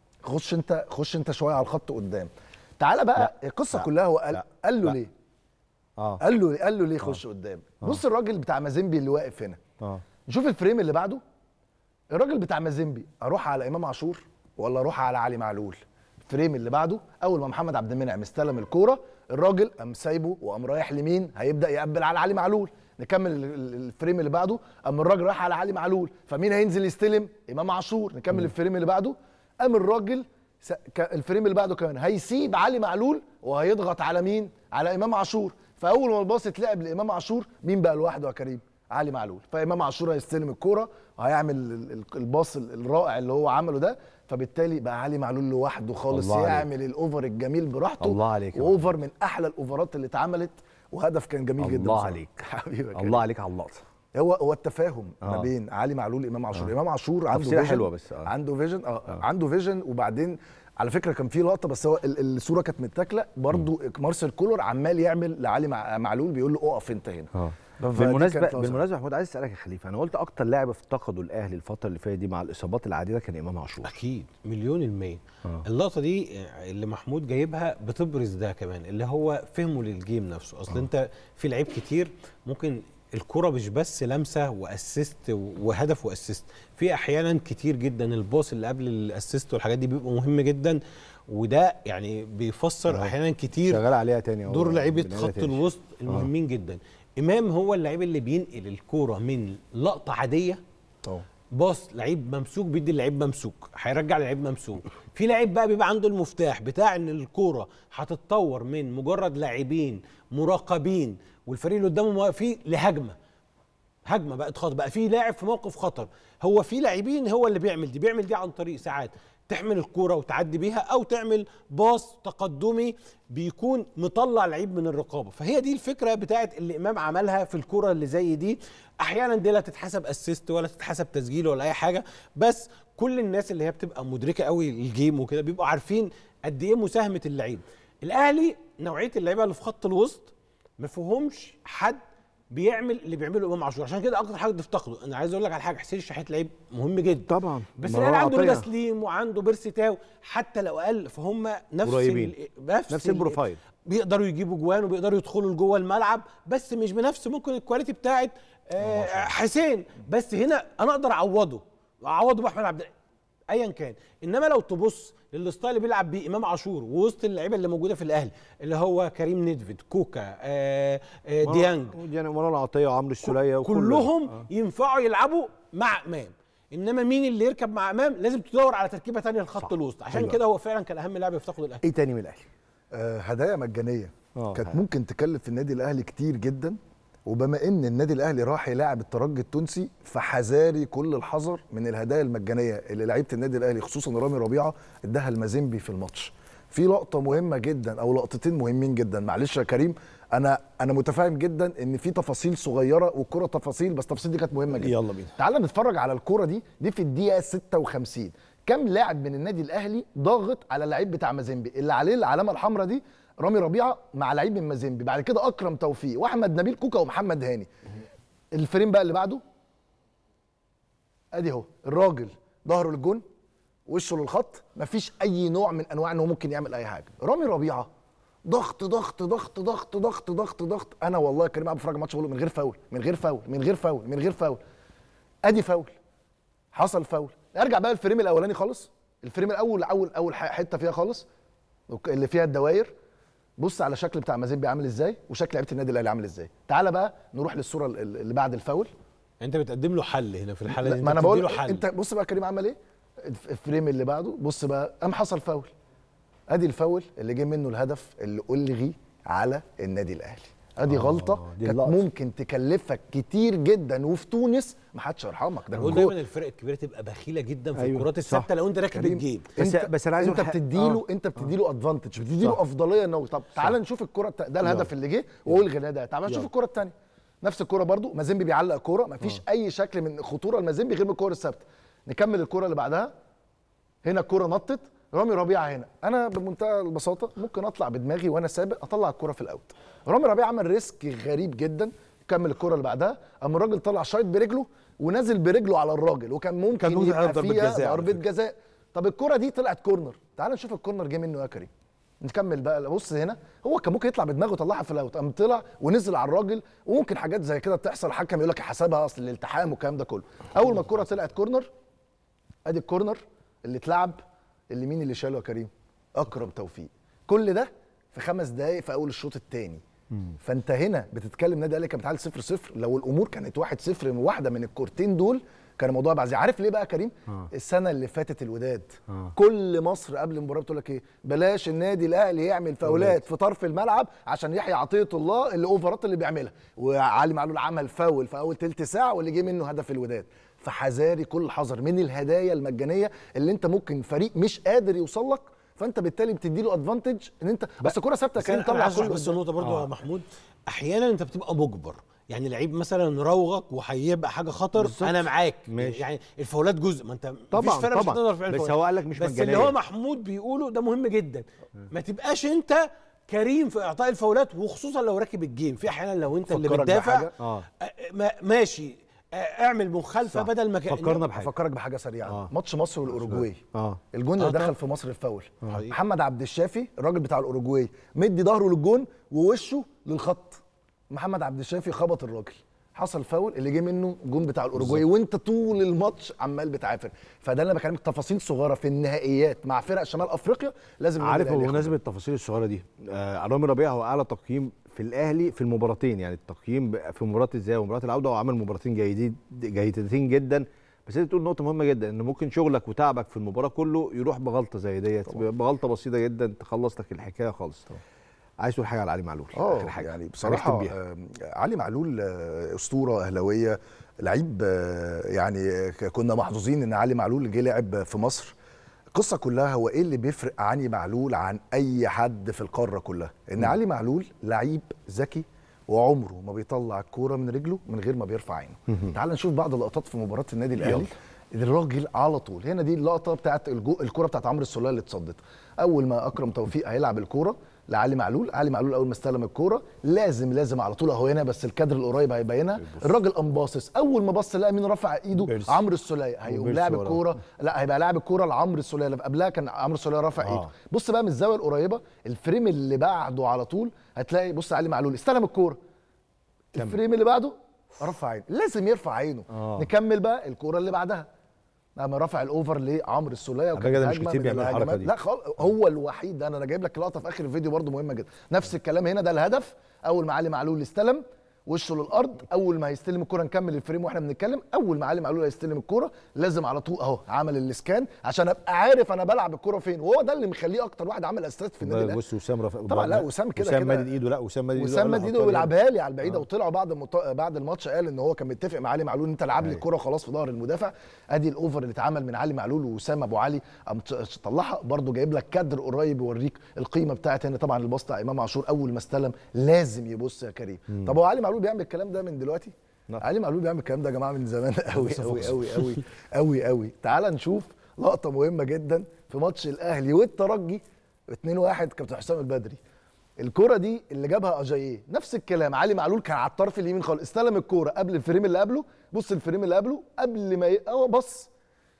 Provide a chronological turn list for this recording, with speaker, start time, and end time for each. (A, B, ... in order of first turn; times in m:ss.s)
0:00.3-0:05.1 A
0:03.2-0:05.0 B
0:06.2-0:09.6 A
0:10.3-0:11.2 A
0:12.1-0:53.2 A
0:46.1-0:46.7 B
0:48.0-0:48.9 B
0:51.6-0:53.8 B
0:54.1-1:08.8 A
0:55.2-0:55.5 B
0:57.3-0:58.3 B
1:07.3-1:14.0 B
1:13.8-1:33.8 C
1:32.9-1:36.3 B
1:34.5-1:40.6 C
1:41.5-1:53.2 C
1:54.1-2:22.0 C
2:22.5-2:42.9 C
2:27.3-2:28.7 B
2:31.8-2:32.3 B
2:32.9-2:33.6 B
2:38.8-2:39.3 B
2:43.5-2:52.0 C
2:51.4-2:54.5 B
2:53.2-3:01.8 C
2:59.6-3:00.4 B
3:01.8-3:02.5 B
3:02.9-3:37.7 A
3:04.4-3:04.8 B
3:24.8-3:25.4 B
3:38.5-3:39.4 A
3:41.3-3:43.2 A
3:43.9-3:47.9 A
3:48.4-3:54.6 A
3:55.5-3:55.9 A
3:56.7-4:01.3 A
4:01.9-4:02.9 A
4:03.6-4:08.9 A
4:09.4-4:11.9 C
4:10.7-4:15.7 A
4:16.5-4:26.2 A
4:20.9-4:22.0 B
4:25.7-4:29.5 C
4:25.8-4:26.0 B
4:27.8-4:28.5 B
4:28.9-4:43.1 A
4:29.6-4:31.5 B
4:44.0-5:01.7 A
4:56.8-4:58.2 B
5:02.2-5:11.7 A
5:12.7-5:19.8 A
5:20.4-5:49.4 A
5:32.9-5:33.2 B
5:48.4-6:11.3 C
5:49.6-5:49.9 B
5:54.8-5:56.1 B
5:57.5-5:59.8 B
6:06.5-6:07.3 A
6:07.4-6:07.7 B
6:10.3-6:11.5 B
6:11.4-6:32.0 A
6:12.3-6:12.5 B
6:13.1-6:14.0 B
6:14.4-6:14.8 C
6:15.7-6:16.0 C
6:31.2-6:48.0 B
6:48.6-6:50.9 B
6:49.6-6:58.6 A
6:59.1-7:35.8 A
7:22.8-7:23.2 B
7:25.4-7:25.8 B
7:26.5-7:27.2 B
7:30.4-7:30.7 B
7:36.8-7:41.3 A
7:39.5-7:39.9 B
7:42.0-8:02.2 A
7:43.8-7:45.1 B
8:01.8-8:05.7 B
8:02.9-8:04.1 A
8:04.8-8:32.8 A
8:20.9-8:21.2 B
8:24.9-8:26.0 B
8:33.4-8:41.5 A